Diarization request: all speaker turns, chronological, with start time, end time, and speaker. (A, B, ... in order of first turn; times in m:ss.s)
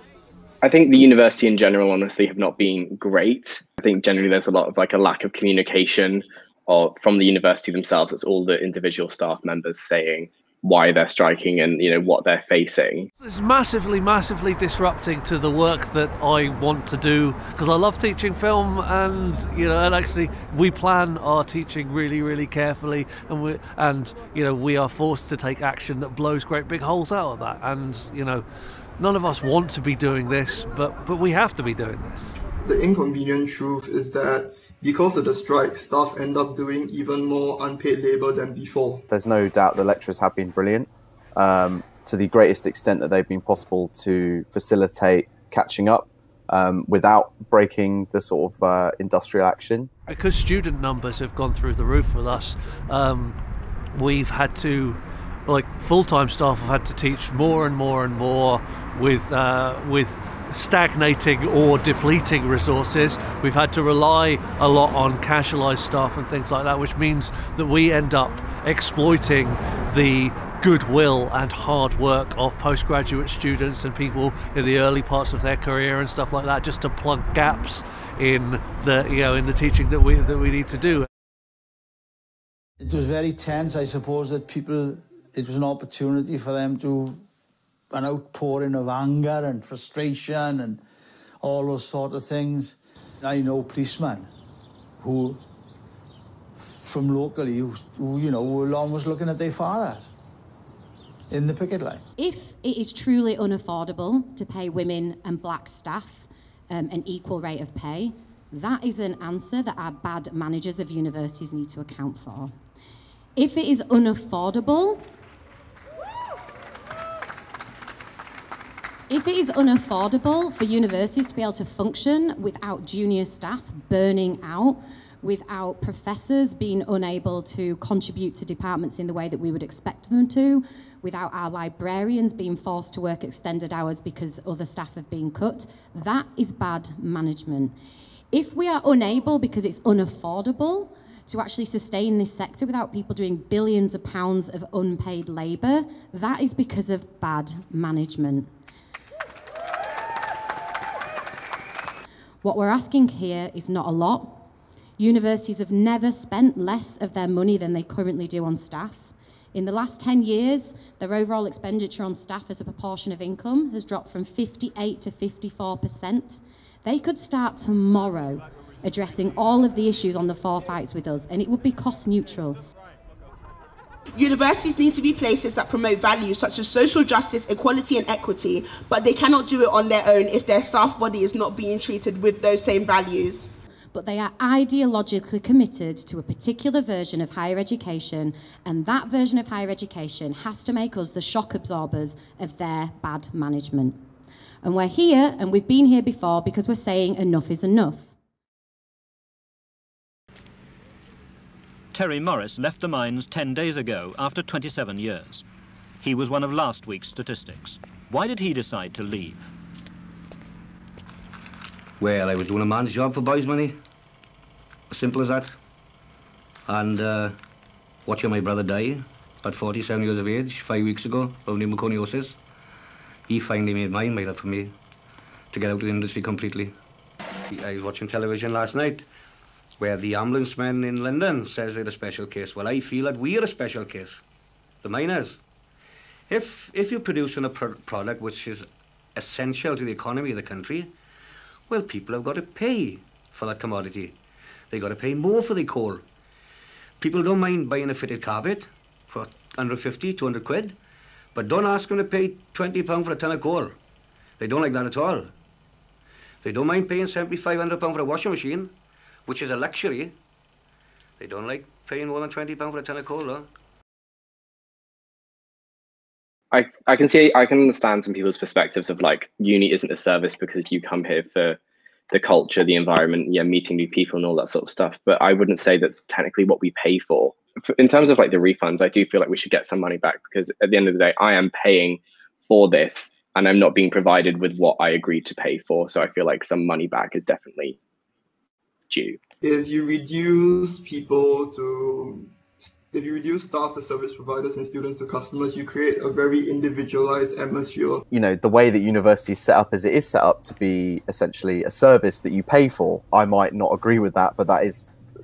0:00.6-0:13.1 A
0:13.2-0:28.4 B
0:29.0-0:32.3 B
0:32.6-0:39.0 C
0:39.1-0:49.9 D
0:50.1-0:53.4 B
0:54.0-1:21.1 B
1:22.8-1:27.2 E
1:27.9-1:30.8 E
1:31.4-1:34.3 E
1:35.0-1:35.4 E
1:36.6-1:40.1 E
1:41.3-1:42.0 E
1:42.2-1:52.5 F
1:53.4-1:55.1 F
1:59.1-2:17.7 F
2:18.3-2:28.5 F
2:32.4-2:34.5 F
2:35.0-2:52.6 F
2:54.1-3:03.5 G
3:03.9-3:14.0 F
3:14.6-3:18.1 F
3:21.9-3:25.4 H
3:26.0-3:29.5 H
3:32.0-3:33.8 I
3:34.9-3:35.5 I
3:36.7-3:37.3 I
3:38.0-3:42.4 I
3:43.3-3:44.7 I
3:45.5-3:46.7 I
3:47.5-3:49.0 I
3:49.8-3:54.2 I
3:54.8-3:55.4 I
3:56.3-4:00.9 I
4:01.7-4:04.1 I
4:04.7-4:06.0 I
4:07.0-4:10.8 I
4:11.3-4:13.8 I
4:14.4-4:15.3 I
4:16.4-4:18.7 I
4:19.2-4:20.1 I
4:21.2-4:23.5 I
4:26.5-4:31.6 A
4:32.1-4:47.8 A
4:48.9-4:49.2 A
4:49.4-4:58.0 C
4:58.1-5:04.9 D